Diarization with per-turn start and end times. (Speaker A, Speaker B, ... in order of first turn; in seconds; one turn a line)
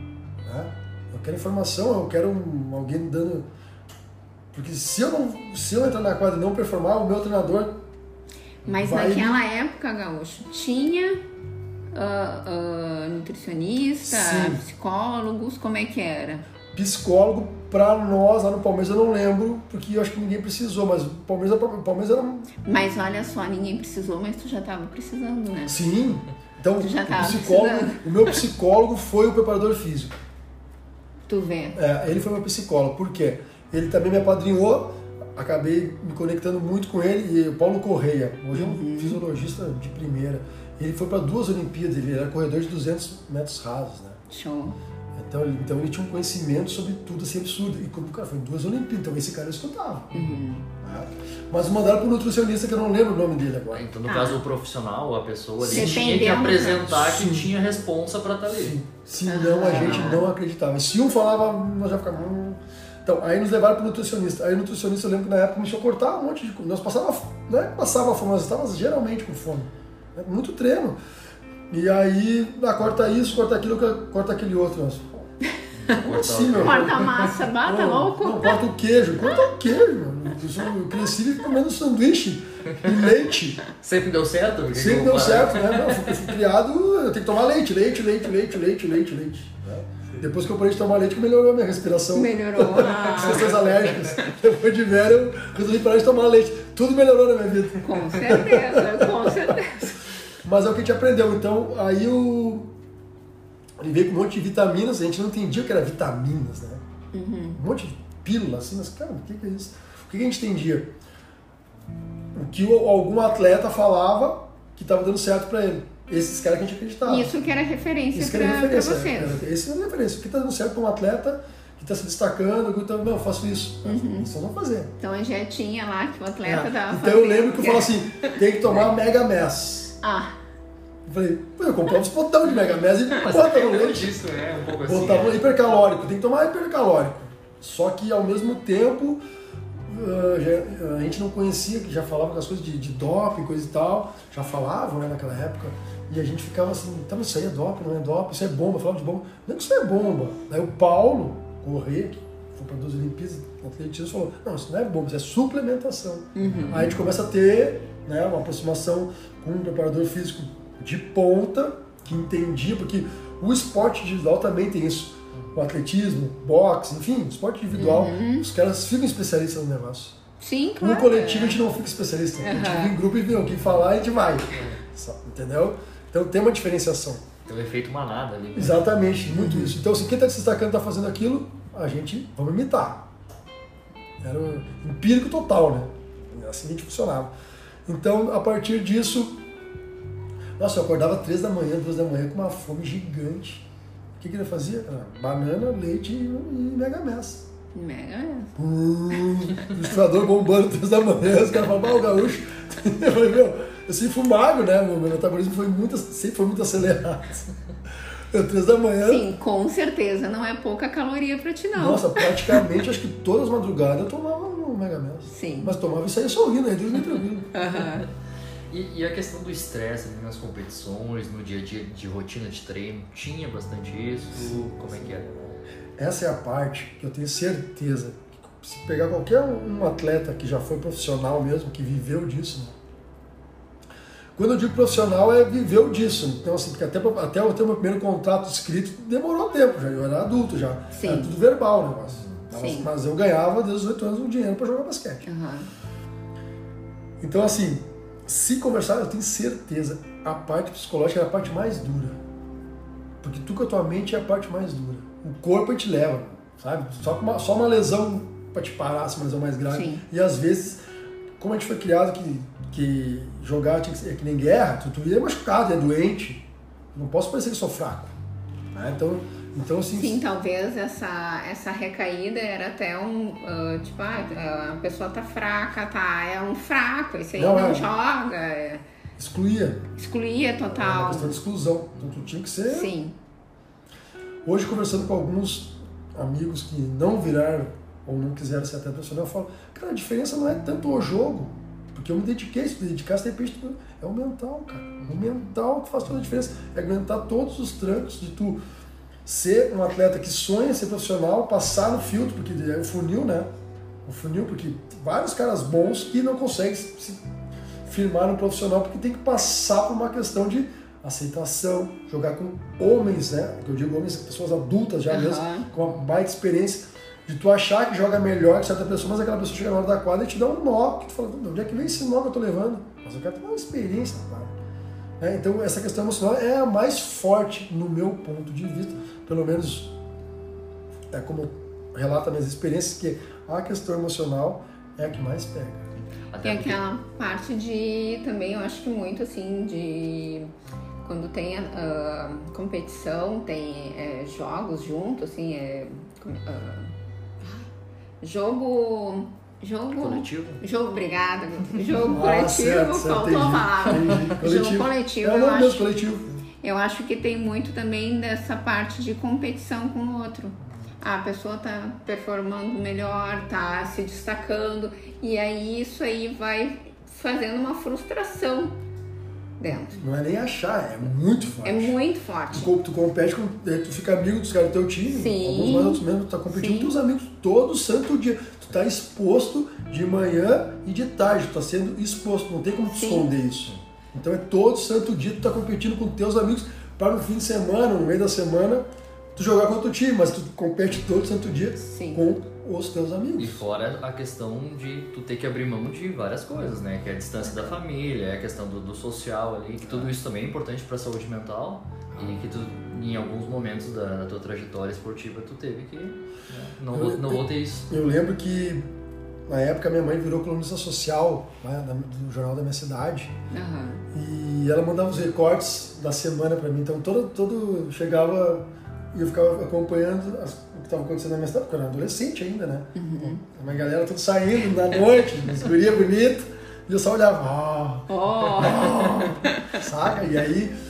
Speaker A: 0.5-3.5
Speaker A: 4.5-7.8
Speaker B: 8.7-11.2
Speaker A: 8.8-9.4
Speaker B: 11.9-16.4
Speaker A: 14.0-14.6
Speaker A: 16.7-22.5
Speaker B: 22.6-25.8
Speaker A: 25.7-30.2
Speaker B: 26.8-28.4
Speaker B: 31.3-31.8
Speaker A: 31.8-44.2
Speaker B: 38.5-39.2
Speaker B: 44.3-44.8
Speaker A: 45.2-50.3
Speaker B: 50.1-50.7
Speaker A: 50.8-53.9
Speaker C: 53.7-58.8
Speaker B: 54.0-54.4
Speaker A: 55.6-56.2
Speaker B: 55.7-56.9
Speaker A: 56.9-57.5
Speaker A: 58.5-71.0
Speaker B: 59.3-60.3
Speaker A: 71.7-75.3
Speaker C: 75.7-77.2
Speaker A: 76.0-83.6
Speaker B: 76.6-78.6
Speaker C: 83.7-86.2
Speaker A: 84.7-102.7
Speaker B: 92.1-93.5
Speaker C: 93.3-94.2
Speaker B: 97.8-100.0
Speaker A: 103.8-106.8
Speaker B: 107.1-107.6
Speaker A: 107.6-110.9
Speaker A: 112.3-117.3
Speaker B: 117.1-119.4
Speaker A: 118.1-124.9
Speaker B: 123.9-124.3
Speaker B: 125.0-128.4
Speaker A: 126.4-130.0
Speaker B: 130.0-130.4
Speaker A: 131.1-134.2
Speaker C: 132.5-135.6
Speaker A: 134.8-139.2
Speaker A: 139.9-170.2
Speaker B: 156.3-156.9
Speaker C: 156.4-156.9
Speaker B: 167.8-168.5
Speaker B: 170.4-171.6
Speaker A: 170.8-177.3
Speaker B: 172.4-172.9
Speaker C: 174.5-174.8
Speaker C: 177.5-178.9
Speaker A: 178.6-183.1
Speaker B: 179.4-179.8
Speaker A: 184.2-187.3
Speaker A: 187.9-189.4
Speaker A: 190.6-193.7
Speaker A: 194.2-197.5
Speaker B: 197.7-198.6
Speaker A: 198.6-207.5
Speaker A: 208.1-209.2
Speaker B: 209.0-212.6
Speaker A: 211.8-217.5
Speaker B: 215.3-215.8
Speaker B: 217.5-218.1
Speaker C: 218.7-225.6
Speaker A: 224.4-224.9
Speaker A: 226.0-232.8
Speaker A: 234.4-245.2
Speaker B: 240.9-241.3
Speaker B: 242.5-242.9
Speaker B: 245.2-245.7
Speaker A: 247.2-252.2
Speaker A: 253.2-260.8
Speaker B: 259.7-260.0
Speaker A: 261.4-268.1
Speaker A: 268.7-270.2
Speaker B: 269.9-278.8
Speaker A: 277.4-277.9
Speaker A: 279.2-279.9
Speaker B: 280.0-281.4
Speaker A: 280.7-282.9
Speaker B: 282.7-283.2
Speaker A: 284.4-298.6
Speaker C: 295.0-295.3
Speaker A: 299.2-303.5
Speaker A: 304.1-307.2
Speaker A: 307.9-324.6
Speaker B: 315.1-315.7
Speaker A: 325.2-329.9
Speaker A: 331.1-335.9
Speaker C: 336.0-336.8
Speaker B: 336.4-340.5
Speaker B: 341.0-347.7
Speaker B: 348.2-355.9
Speaker C: 350.0-350.6
Speaker A: 352.0-356.3
Speaker B: 356.6-368.8
Speaker B: 369.6-370.0
Speaker A: 369.9-372.0
Speaker B: 371.6-372.7
Speaker A: 372.5-393.6
Speaker B: 375.1-376.9
Speaker B: 382.9-383.3
Speaker B: 391.8-392.3
Speaker C: 393.4-407.9
Speaker B: 397.5-397.8
Speaker A: 399.8-400.1
Speaker A: 402.1-402.5
Speaker A: 406.9-408.9
Speaker A: 409.5-413.3
Speaker B: 413.5-414.0
Speaker A: 414.1-430.8
Speaker B: 422.9-423.4
Speaker B: 428.1-429.8